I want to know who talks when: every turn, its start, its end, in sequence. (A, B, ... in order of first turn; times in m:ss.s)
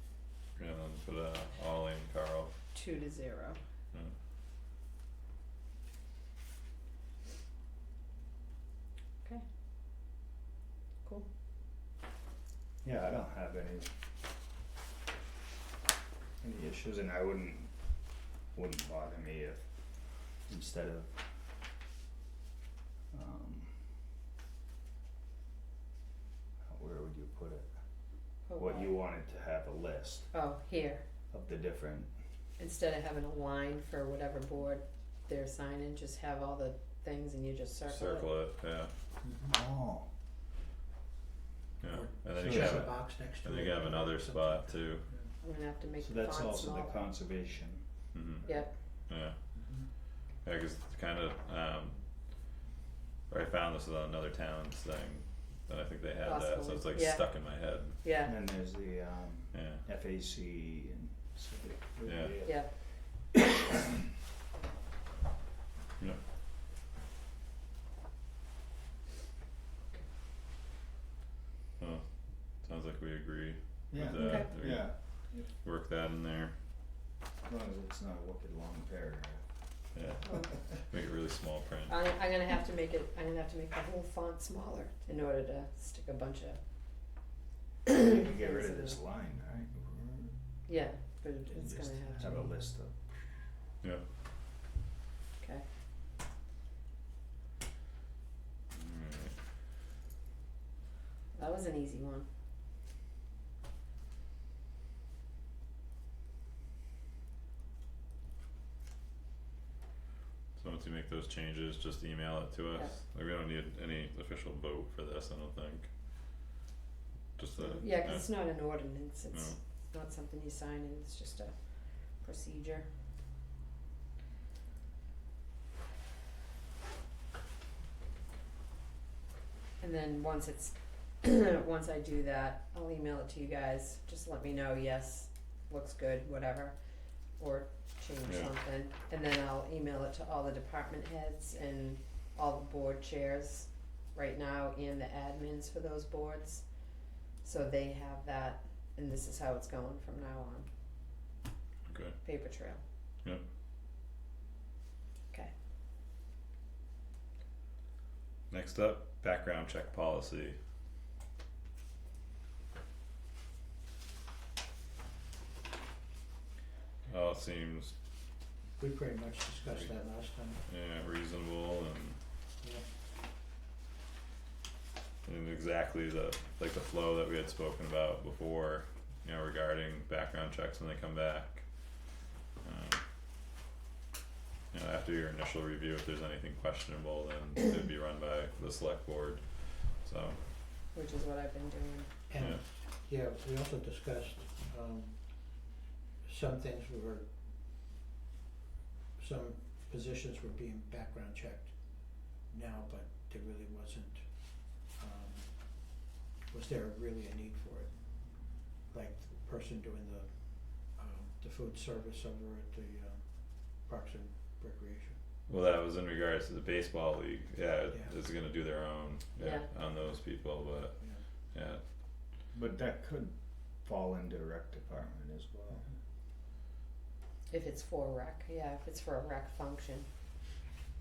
0:00.6-0:02.5 A
0:02.7-0:03.6 B
0:12.8-0:13.9 C
0:16.4-0:17.7 C
0:18.5-0:19.7 C
0:20.5-0:21.3 C
0:23.1-0:23.8 C
0:26.7-0:27.7 C
0:28.5-0:28.9 B
0:28.6-0:30.3 C
0:30.3-0:31.0 B
0:31.3-0:32.1 C
0:32.6-0:38.3 B
0:37.9-0:38.9 A
0:39.2-0:39.5 D
0:39.5-0:40.1 C
0:41.8-0:45.1 A
0:41.8-0:45.3 D
0:42.4-0:42.9 C
0:45.4-0:47.0 B
0:46.0-0:47.8 C
0:48.1-0:48.5 A
0:48.4-0:48.7 B
0:49.1-0:49.4 A
0:49.5-0:49.8 D
0:50.4-0:52.0 A
0:53.3-0:58.0 A
0:56.2-0:58.3 B
0:58.2-1:02.6 C
0:59.5-0:59.8 A
1:02.0-1:02.4 A
1:02.4-1:02.7 B
1:12.5-1:16.5 A
1:13.9-1:15.0 C
1:14.2-1:14.5 B
1:17.4-1:19.4 C
1:19.9-1:21.9 A
1:20.2-1:20.5 B
1:21.9-1:26.6 B
1:27.9-1:29.0 B
1:28.0-1:30.3 C
1:30.7-1:32.5 B
1:31.6-1:33.1 C
1:35.4-1:35.6 B
1:38.7-1:39.3 A
1:41.3-1:42.3 B
1:50.6-1:55.9 A
1:57.4-1:58.3 A
1:57.6-2:02.9 B
1:59.3-1:59.6 A
2:09.8-2:16.8 B
2:17.4-2:26.7 B
2:18.2-2:18.5 A
2:27.4-2:30.7 B
2:31.9-2:32.2 A
2:32.2-2:32.8 B
2:38.5-2:40.6 A
2:47.0-2:47.9 A
2:48.8-2:50.6 D
2:50.7-2:52.2 A
2:55.2-3:01.6 A
3:02.6-3:03.0 A
3:04.7-3:10.4 A
3:10.9-3:12.1 B
3:12.3-3:15.6 D
3:16.2-3:17.3 D
3:19.2-3:35.2 D
3:35.5-3:41.8 A
3:39.4-3:39.7 B
3:41.0-3:41.2 D
3:42.5-3:45.9 C
3:47.5-3:50.1 B